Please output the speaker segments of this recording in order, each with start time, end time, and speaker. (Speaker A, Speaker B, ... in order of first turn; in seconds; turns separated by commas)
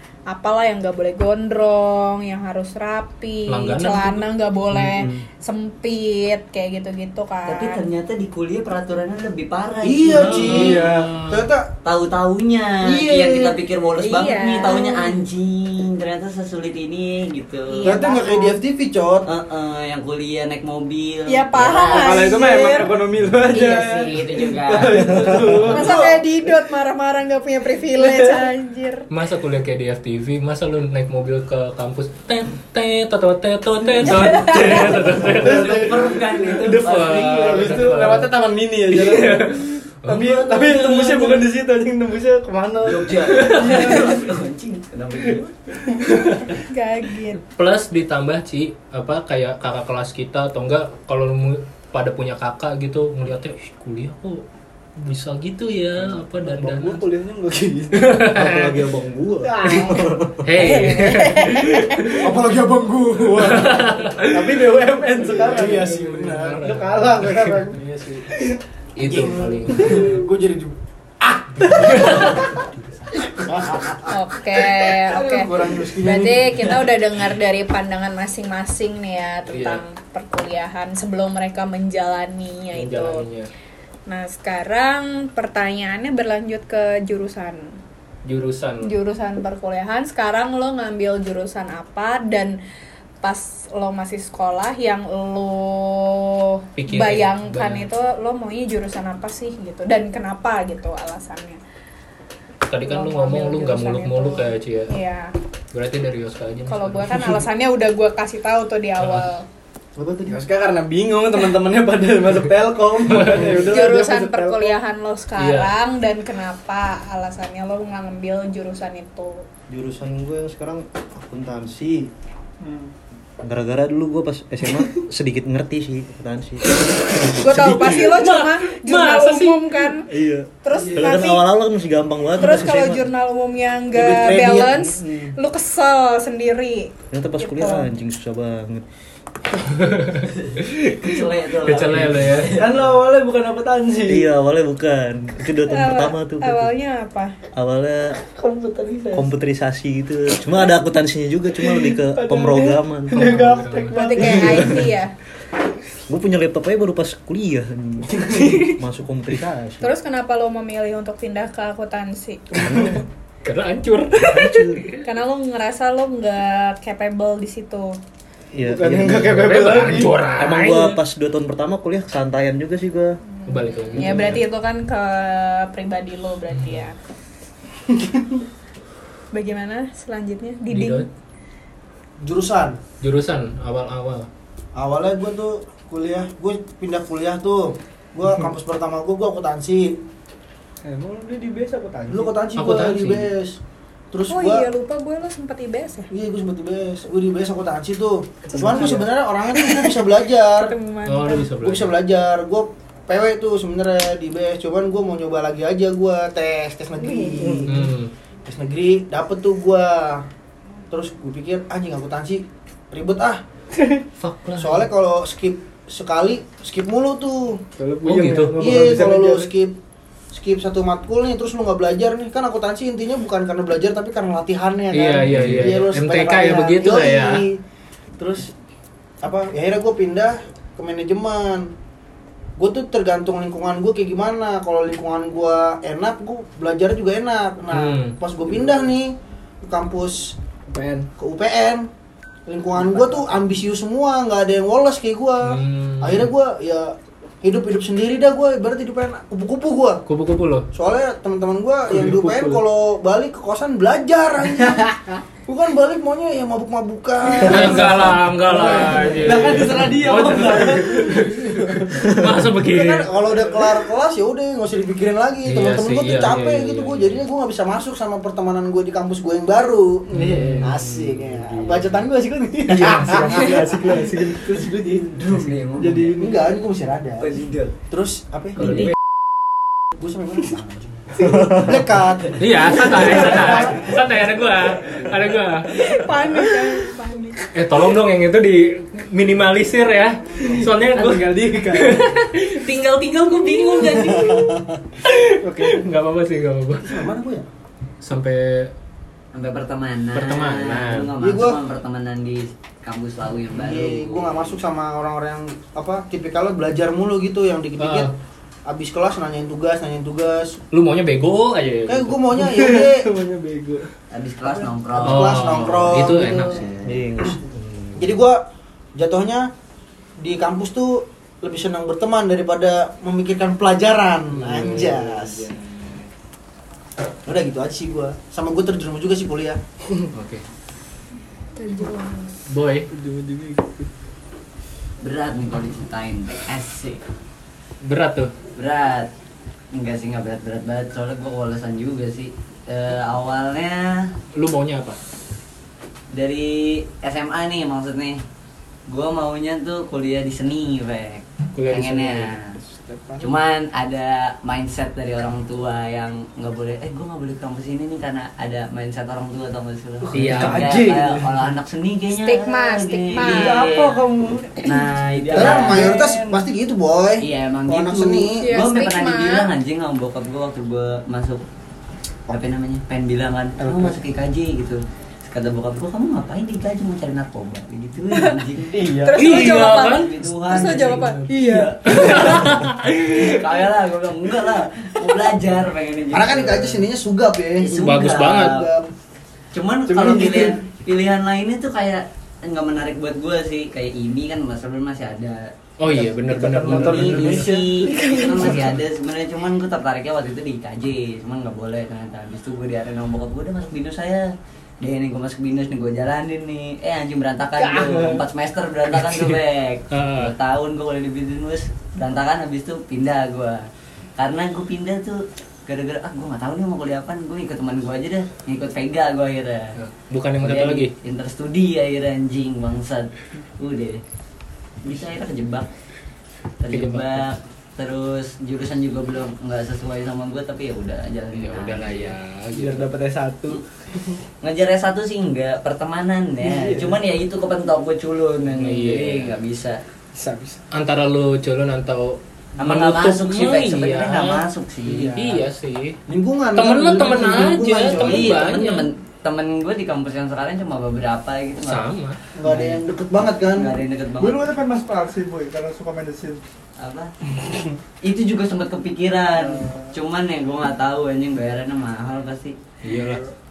Speaker A: 0.3-7.8, Speaker B: 3.5-4.2, Speaker C: 4.8-5.2, Speaker D: 7.5-10.8, Speaker E: 9.8-11.7, Speaker B: 10.1-11.5, Speaker F: 10.5-11.1, Speaker D: 11.8-18.0, Speaker E: 12.8-13.6, Speaker A: 14.0-15.2, Speaker A: 17.7-18.6, Speaker E: 17.8-19.3, Speaker D: 19.3-22.5, Speaker A: 21.3-22.9, Speaker F: 21.8-26.1, Speaker D: 23.4-25.6, Speaker A: 25.6-29.1, Speaker F: 28.0-28.4, Speaker B: 29.1-38.4, Speaker D: 34.4-38.0, Speaker F: 35.4-44.2, Speaker B: 38.9-40.4, Speaker D: 40.4-41.4, Speaker D: 42.8-45.5, Speaker A: 46.5-47.4, Speaker B: 47.5-54.4, Speaker B: 55.0-57.0, Speaker F: 56.2-58.1, Speaker B: 57.9-58.8, Speaker C: 58.3-60.5, Speaker F: 59.4-60.2, Speaker B: 60.4-62.4, Speaker A: 60.6-62.1, Speaker F: 62.2-70.7, Speaker E: 62.2-63.5, Speaker B: 63.4-64.6, Speaker B: 65.8-67.6, Speaker B: 69.0-70.2, Speaker F: 71.6-72.1, Speaker B: 71.7-72.4, Speaker E: 73.4-74.0, Speaker A: 74.1-83.3, Speaker F: 75.1-76.4, Speaker E: 75.6-76.0, Speaker B: 79.5-79.8, Speaker B: 82.7-83.5, Speaker A: 84.1-87.8, Speaker B: 88.2-88.9, Speaker A: 88.8-92.6, Speaker A: 93.2-101.6, Speaker B: 96.8-97.9, Speaker B: 102.7-104.9, Speaker A: 102.8-105.3, Speaker B: 105.7-107.3, Speaker A: 106.7-109.5, Speaker B: 109.0-109.3, Speaker C: 110.0-110.4, Speaker F: 110.2-114.8, Speaker B: 113.1-113.6, Speaker A: 113.6-119.5, Speaker B: 115.4-115.7, Speaker C: 119.7-122.1, Speaker G: 122.6-122.9, Speaker C: 123.4-128.1, Speaker A: 127.3-130.1, Speaker B: 127.6-129.9, Speaker C: 130.1-133.1, Speaker A: 130.6-131.5, Speaker F: 130.8-131.1, Speaker A: 132.4-137.9, Speaker E: 133.9-135.3, Speaker C: 137.1-138.8, Speaker B: 139.8-142.6, Speaker D: 140.3-142.9, Speaker F: 142.6-144.3, Speaker C: 144.1-146.7, Speaker A: 145.7-147.3, Speaker C: 147.5-148.2, Speaker F: 148.2-149.3, Speaker C: 149.1-153.7, Speaker F: 151.6-154.9, Speaker B: 153.2-154.0, Speaker A: 153.9-155.2, Speaker C: 156.1-159.9, Speaker F: 158.2-158.7, Speaker A: 159.8-163.0, Speaker B: 163.4-165.0, Speaker C: 164.2-164.8, Speaker A: 164.9-168.0, Speaker C: 168.5-173.2, Speaker F: 168.6-170.3, Speaker B: 169.2-171.0, Speaker A: 173.4-177.0, Speaker B: 173.5-174.4, Speaker C: 174.0-174.4, Speaker B: 176.5-176.8, Speaker F: 177.9-178.4, Speaker A: 179.3-181.1, Speaker B: 180.7-181.1, Speaker E: 182.2-182.8, Speaker B: 183.0-184.3, Speaker E: 184.8-190.0, Speaker F: 190.8-192.3, Speaker E: 192.1-193.6, Speaker B: 192.6-193.3, Speaker E: 194.1-194.7, Speaker A: 194.3-196.1, Speaker E: 196.1-200.7, Speaker F: 198.5-199.1, Speaker A: 200.5-201.5, Speaker B: 201.1-201.9, Speaker E: 201.6-207.9, Speaker F: 207.0-207.9, Speaker B: 207.7-208.1, Speaker E: 208.5-210.3, Speaker E: 210.9-213.4, Speaker B: 214.2-214.9, Speaker E: 214.6-217.6, Speaker F: 217.8-219.5, Speaker B: 218.0-218.6, Speaker E: 218.6-219.8, Speaker E: 220.3-227.6, Speaker B: 224.9-227.4, Speaker C: 225.3-225.8, Speaker E: 228.2-228.5, Speaker E: 229.2-231.7, Speaker E: 232.6-240.4, Speaker B: 237.7-238.2, Speaker F: 240.7-241.1, Speaker E: 241.2-241.9, Speaker E: 242.5-250.0, Speaker B: 245.4-246.3, Speaker B: 250.1-250.7, Speaker E: 250.7-273.8, Speaker B: 251.9-252.6, Speaker B: 257.4-263.1, Speaker F: 257.5-262.1, Speaker B: 265.4-267.2, Speaker B: 270.1-272.0, Speaker F: 270.1-270.8, Speaker F: 272.7-276.3, Speaker B: 272.8-273.6, Speaker D: 275.1-276.2, Speaker E: 276.2-277.3, Speaker D: 277.2-277.7, Speaker E: 277.9-278.9, Speaker D: 278.6-278.9, Speaker B: 278.6-278.9, Speaker E: 280.0-283.7, Speaker F: 281.2-281.5, Speaker B: 282.4-286.0, Speaker F: 283.2-283.8, Speaker A: 285.7-287.5, Speaker B: 287.5-297.1, Speaker F: 290.4-292.2, Speaker A: 293.4-294.2, Speaker F: 294.1-294.4, Speaker F: 295.4-295.9, Speaker E: 296.8-297.5, Speaker B: 298.0-298.7, Speaker D: 299.3-304.6, Speaker B: 300.1-301.1, Speaker E: 301.2-301.6, Speaker E: 303.5-308.1, Speaker B: 307.8-308.1, Speaker E: 308.7-310.6, Speaker B: 310.7-312.2, Speaker E: 311.9-313.1, Speaker F: 312.4-313.9, Speaker D: 314.1-316.1, Speaker E: 314.5-317.4, Speaker B: 315.0-316.7, Speaker C: 316.8-318.2, Speaker E: 318.0-318.4, Speaker E: 319.0-319.5, Speaker E: 320.2-325.5, Speaker B: 324.3-326.1, Speaker E: 327.2-329.6, Speaker B: 330.1-330.4, Speaker A: 331.6-332.4, Speaker B: 332.5-332.9, Speaker F: 332.9-333.9, Speaker D: 335.0-337.0, Speaker B: 337.8-338.3, Speaker D: 338.6-339.1, Speaker D: 339.7-344.1, Speaker B: 344.4-345.0, Speaker D: 346.1-348.2, Speaker D: 348.9-352.6, Speaker B: 351.6-352.3, Speaker F: 352.6-353.4, Speaker D: 353.2-364.1, Speaker F: 360.0-361.4, Speaker B: 360.1-360.8, Speaker A: 362.1-363.8, Speaker F: 363.2-366.4, Speaker D: 364.6-365.9, Speaker E: 365.4-368.5, Speaker D: 367.2-371.4, Speaker A: 368.4-369.5, Speaker D: 372.3-386.9, Speaker F: 373.6-374.0, Speaker A: 378.1-378.4, Speaker F: 378.6-379.2, Speaker A: 378.9-382.0, Speaker B: 379.2-380.1, Speaker F: 381.3-381.9, Speaker B: 381.9-383.3, Speaker E: 386.1-388.9, Speaker D: 387.6-388.7, Speaker B: 387.7-388.6, Speaker D: 389.5-395.5, Speaker F: 389.9-390.6, Speaker B: 395.8-397.6, Speaker F: 396.1-398.6, Speaker D: 396.5-404.3, Speaker A: 397.9-398.4, Speaker B: 398.4-398.8, Speaker D: 404.8-413.6, Speaker F: 407.6-408.2, Speaker B: 409.0-409.4, Speaker B: 409.9-410.3, Speaker D: 414.2-419.8, Speaker B: 419.8-420.9, Speaker D: 420.4-424.0, Speaker D: 424.8-425.7, Speaker D: 426.6-432.1, Speaker B: 426.7-427.3, Speaker B: 431.3-432.9, Speaker F: 432.5-434.2, Speaker D: 434.4-439.8, Speaker F: 436.4-437.0, Speaker B: 438.5-439.4, Speaker F: 440.1-440.6, Speaker B: 440.7-444.4, Speaker D: 442.6-445.2, Speaker F: 444.9-445.4, Speaker B: 445.1-446.0, Speaker E: 446.1-448.5, Speaker B: 446.6-448.9, Speaker D: 447.9-451.9, Speaker B: 451.6-452.2, Speaker E: 452.4-453.8, Speaker D: 452.4-452.9, Speaker D: 453.5-454.5, Speaker G: 454.2-456.4, Speaker D: 456.8-457.1, Speaker D: 458.0-462.6, Speaker G: 459.4-459.9, Speaker B: 462.8-463.2, Speaker G: 462.9-463.3